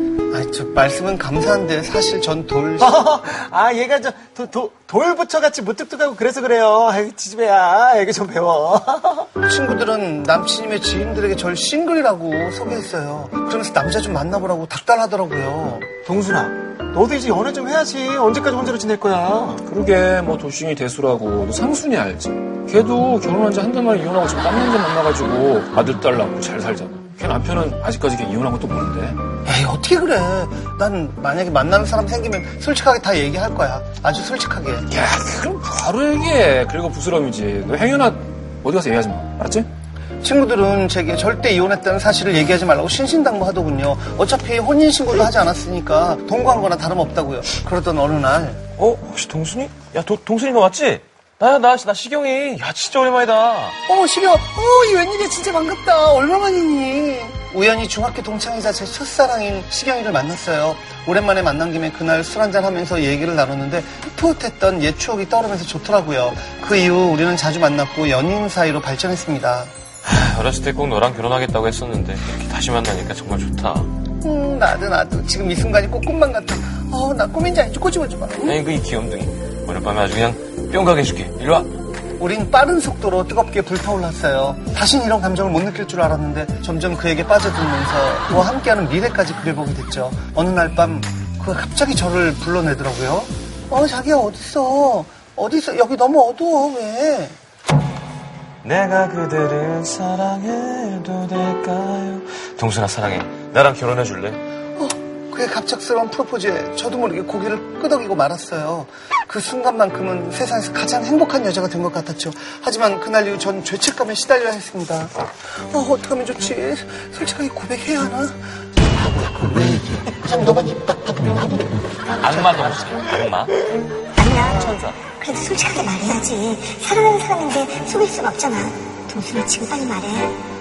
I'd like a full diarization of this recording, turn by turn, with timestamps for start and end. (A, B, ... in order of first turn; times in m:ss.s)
0:00.3-0:03.0 A
0:02.8-0:09.3 B
0:09.4-0:16.0 A
0:16.0-0:19.6 B
0:19.6-0:29.2 C
0:29.4-0:34.9 A
0:34.9-0:39.7 C
0:40.2-0:48.6 A
0:48.8-0:53.8 D
0:53.9-1:09.7 A
1:10.0-1:13.9 D
1:14.2-1:18.6 A
1:18.4-1:21.7 D
1:22.2-1:37.4 A
1:38.6-1:44.4 D
1:44.8-1:58.4 A
1:59.1-2:03.0 A
2:02.2-2:03.5 D
2:04.2-2:10.4 E
2:04.5-2:05.0 D